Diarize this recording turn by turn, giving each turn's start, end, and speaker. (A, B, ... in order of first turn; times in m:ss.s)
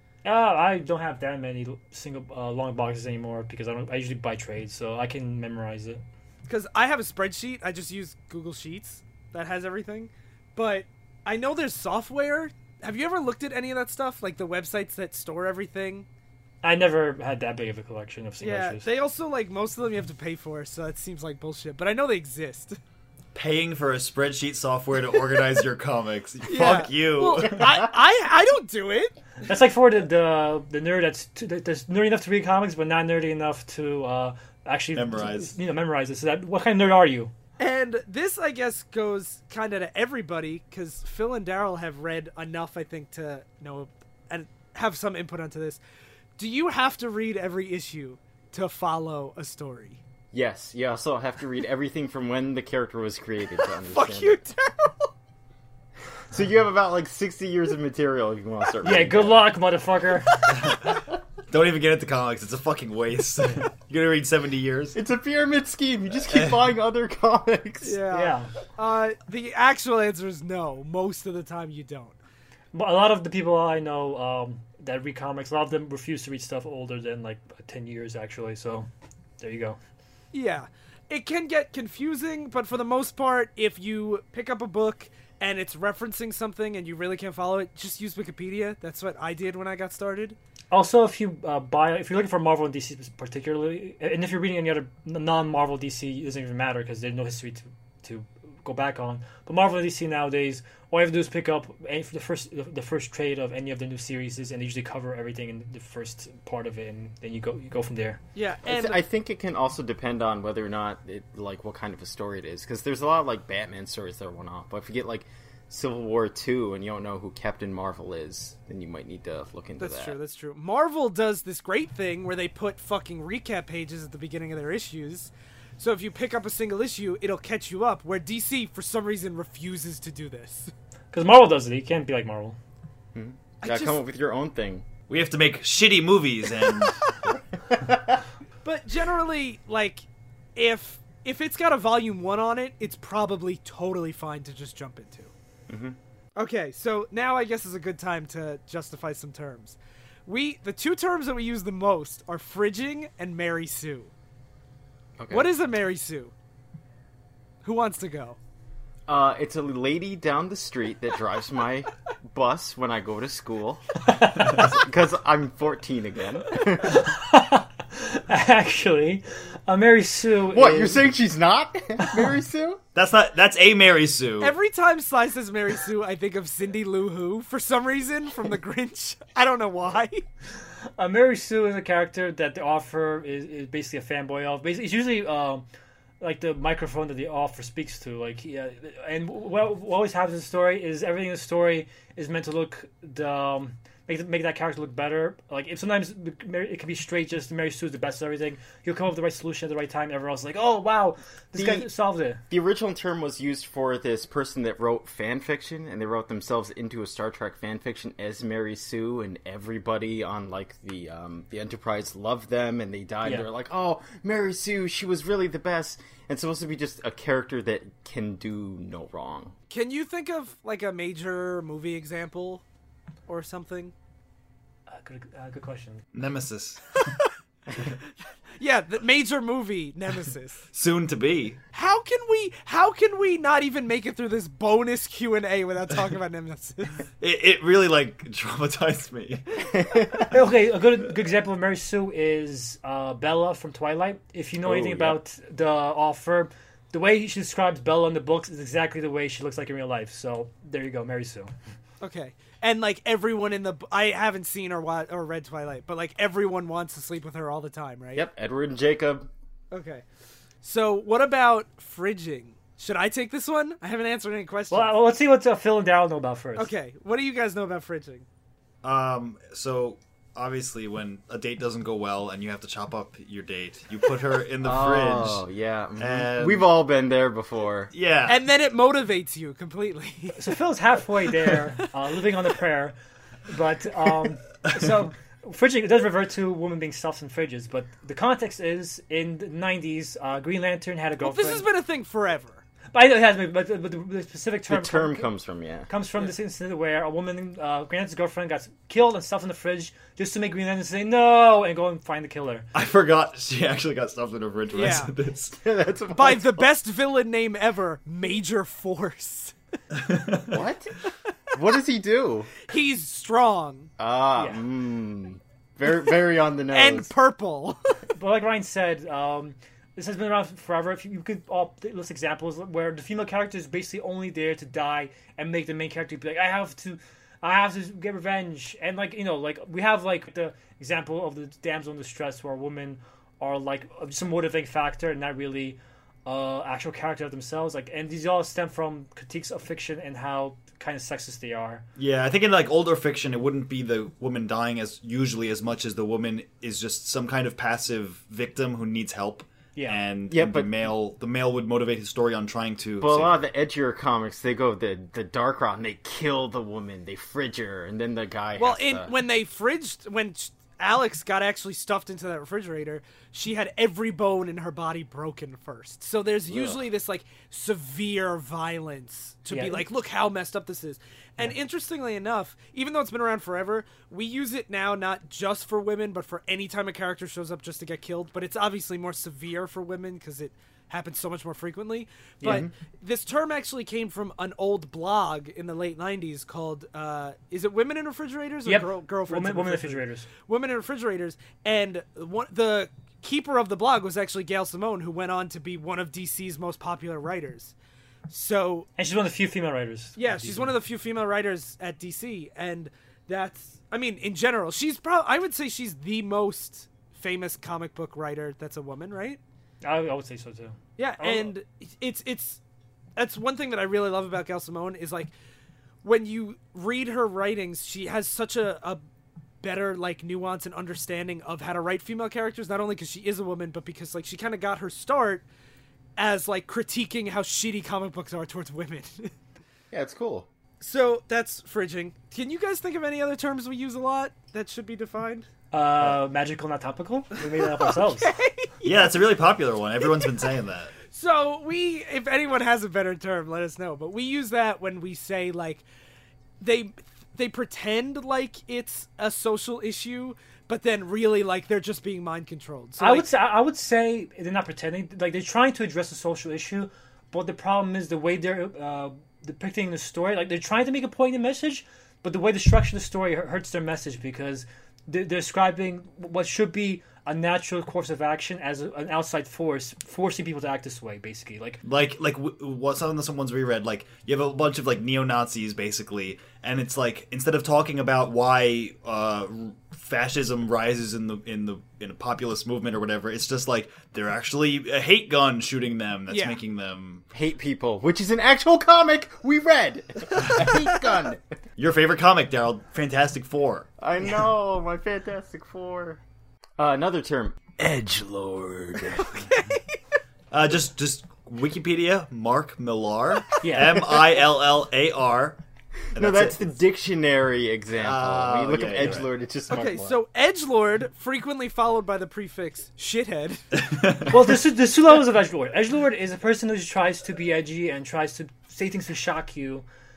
0:00.2-0:06.0 A
0:06.5-0:16.1 B
0:16.6-0:18.8 A
0:18.4-0:22.8 B
0:23.3-0:27.8 C
0:26.4-0:29.2 B
0:29.4-0:37.3 A
0:34.9-0:35.5 C
0:37.6-0:45.8 B
0:46.4-0:50.0 B
0:50.3-0:54.4 D
0:53.9-0:55.1 B
0:56.3-0:59.4 D
0:58.8-1:00.5 A
1:00.5-1:05.0 C
1:04.9-1:08.0 D
1:06.3-1:06.6 C
1:07.8-1:12.2 B
1:08.1-1:08.5 A
1:12.7-1:18.9 A
1:19.4-1:19.8 A
1:20.3-1:30.4 B
1:30.7-1:48.2 A
1:48.3-1:49.0 B
1:48.6-2:00.2 D
1:59.8-2:10.7 B
2:11.1-2:12.6 A
2:13.1-2:14.9 D
2:13.6-2:14.0 B
2:15.1-2:17.1 C
2:17.7-2:18.2 D
2:18.6-2:25.3 B
2:25.7-2:26.0 D
2:26.4-2:34.1 B
2:35.2-2:35.5 D
2:35.3-2:36.3 B
2:37.6-2:38.4 B
2:39.1-2:47.1 D
2:44.1-2:44.6 A
2:46.8-2:51.0 A
2:50.5-2:52.8 D
2:52.9-2:54.5 C
2:54.4-3:00.2 B
3:01.0-3:05.6 A
3:06.2-3:22.4 A
3:21.5-3:21.9 D
3:22.5-3:39.5 D
3:39.7-3:42.6 B
3:43.3-3:43.9 B
3:44.9-3:46.0 A
3:46.1-3:47.1 C
3:47.0-3:47.9 B
3:48.6-3:50.7 B
3:50.7-3:51.6 C
3:51.7-3:57.1 B
3:57.2-4:00.3 C
3:59.8-4:00.1 D
4:00.3-4:11.5 A
4:04.6-4:05.2 D
4:12.0-4:18.3 B
4:18.1-4:19.3 D
4:19.7-4:20.0 B
4:20.6-4:24.9 B
4:24.7-4:26.7 A
4:26.6-4:28.2 B
4:28.8-4:35.4 C
4:34.6-4:37.9 D
4:36.0-4:36.7 C
4:37.9-4:38.4 C
4:38.3-4:40.5 B
4:40.4-4:42.9 A
4:43.5-4:51.6 A
4:51.2-4:52.6 B
4:52.9-4:55.2 A
4:54.7-4:55.9 D
4:55.9-5:02.7 A
5:02.7-5:05.6 C
5:04.7-5:05.1 B
5:05.6-5:06.7 D
5:06.1-5:09.5 B
5:09.9-5:10.6 C
5:10.5-5:10.9 D
5:11.5-5:12.5 D
5:12.7-5:13.9 B
5:14.0-5:17.1 D
5:16.7-5:18.0 B
5:18.2-5:41.8 A
5:42.0-5:53.4 C
5:49.8-5:50.0 A
5:50.3-5:50.7 D
5:53.0-5:59.1 D
5:58.6-6:37.7 B
6:06.5-6:06.8 D
6:09.5-6:09.8 A
6:22.4-6:22.7 A
6:28.6-6:30.3 A
6:38.3-6:38.9 B
6:39.0-6:40.8 A
6:40.2-6:49.4 B
6:49.8-6:51.5 A
6:51.0-6:52.6 B
6:53.2-6:55.3 B
6:56.0-6:59.0 B
6:59.6-7:05.4 B
7:06.2-7:09.3 B
7:09.9-7:10.5 D
7:10.8-7:15.5 B
7:15.7-7:18.3 A
7:17.7-7:19.1 B
7:18.8-7:20.9 C
7:21.0-7:25.8 B
7:26.6-7:33.3 B
7:33.0-7:51.8 A
7:51.8-8:07.2 C
8:06.3-8:06.6 B
8:07.3-8:11.4 D
8:10.4-8:10.7 C
8:11.8-8:13.9 C
8:14.0-8:16.2 D
8:16.8-8:19.5 D
8:19.2-8:19.8 B
8:20.5-8:25.6 C
8:23.6-8:24.0 A
8:26.1-8:30.2 D
8:26.1-8:26.6 C
8:28.0-8:29.3 C
8:29.7-8:33.6 B
8:33.8-8:34.4 C
8:34.3-8:39.8 A